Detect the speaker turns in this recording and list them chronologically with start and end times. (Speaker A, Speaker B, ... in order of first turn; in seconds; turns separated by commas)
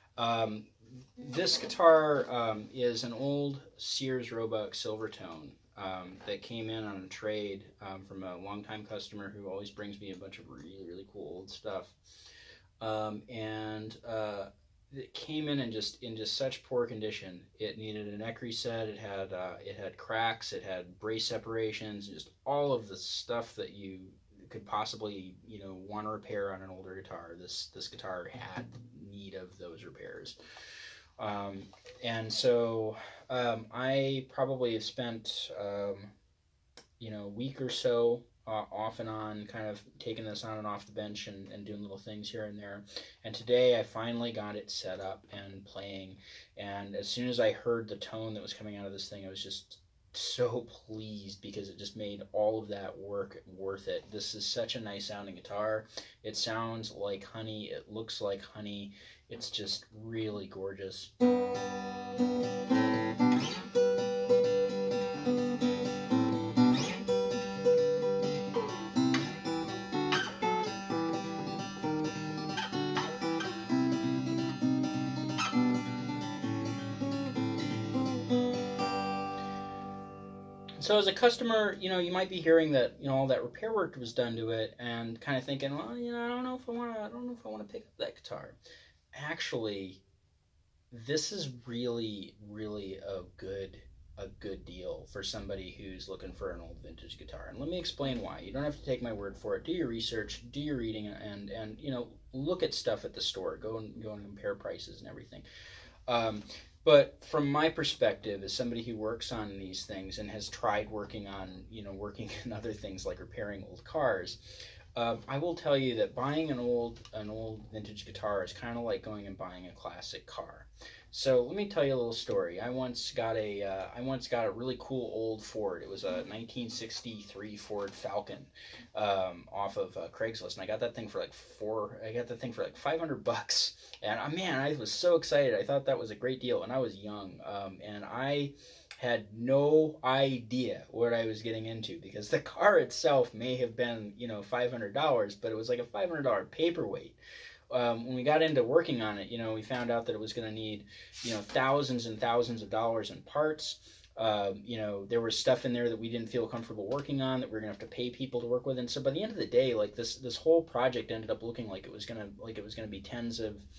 Speaker A: 0.2-11.9, Speaker A: 12.8-30.4, Speaker A: 31.2-36.1, Speaker A: 37.0-61.1, Speaker A: 80.8-88.6, Speaker A: 89.1-90.0, Speaker A: 90.9-105.5, Speaker A: 106.1-147.2, Speaker A: 147.7-163.6